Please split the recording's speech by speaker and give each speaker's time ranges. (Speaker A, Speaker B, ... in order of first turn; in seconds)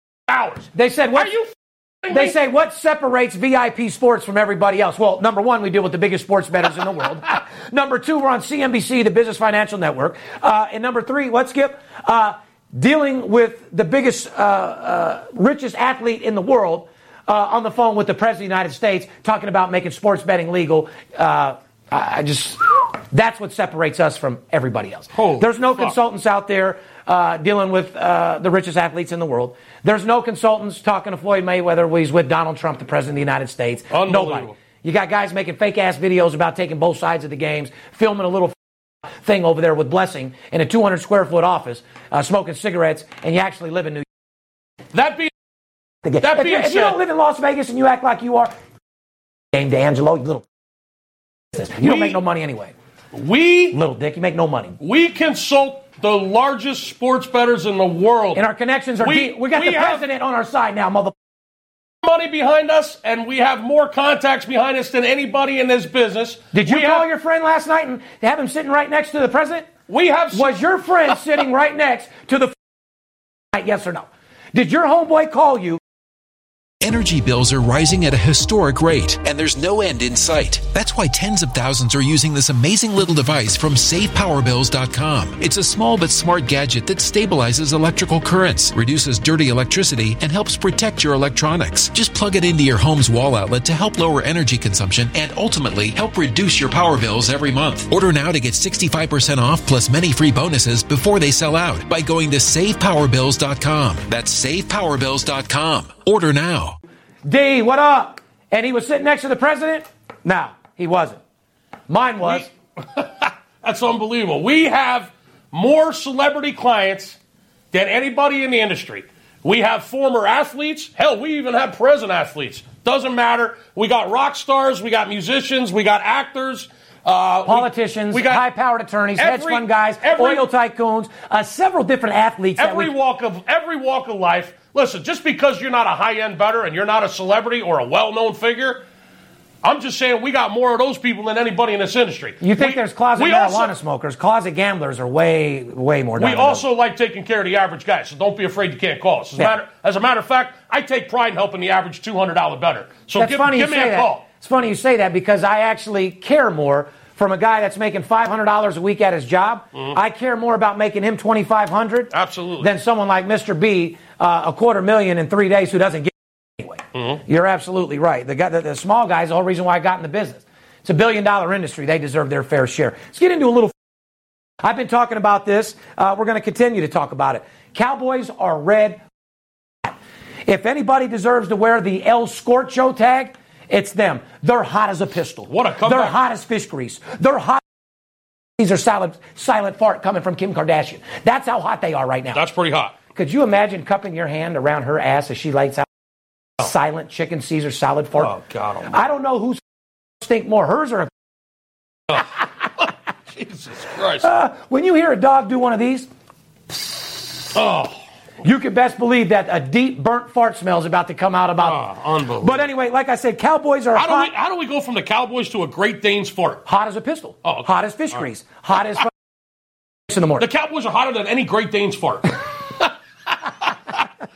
Speaker A: 0.3-1.5, 2.0-2.3, 25.1-25.9, 33.9-34.5, 44.9-45.3, 46.2-47.0, 51.8-52.2, 53.1-53.8, 54.8-58.4, 59.0-60.0, 62.0-67.0, 69.9-70.6, 112.2-117.2, 117.7-128.4, 129.2-130.4, 132.6-138.8, 139.6-143.7, 146.2-154.2, 162.1-162.7, 166.9-167.2, 185.5-186.2, 192.3-192.9, 198.2-198.9, 202.1-204.3, 207.5-208.0, 211.6-212.6, 213.9-216.6, 220.4-222.9, 223.4-224.0
Speaker B: 0.7-1.4, 2.1-38.5, 39.2-44.0, 46.0-48.5, 49.5-50.4, 51.5-52.7, 53.7-54.8, 58.4-61.1, 66.5-69.7, 70.3-72.5, 73.5-75.8, 107.2-111.2, 111.9-112.5, 127.5-132.9, 142.4-146.6, 153.1-173.7, 174.6-179.0, 179.8-187.6, 188.6-192.4, 193.1-195.9, 196.6-198.3, 198.9-199.6, 200.2-201.1, 204.2-206.1, 206.7-207.0, 208.4-211.8, 212.4-214.3, 216.7-219.1, 220.1-220.4
Speaker C: 76.8-106.8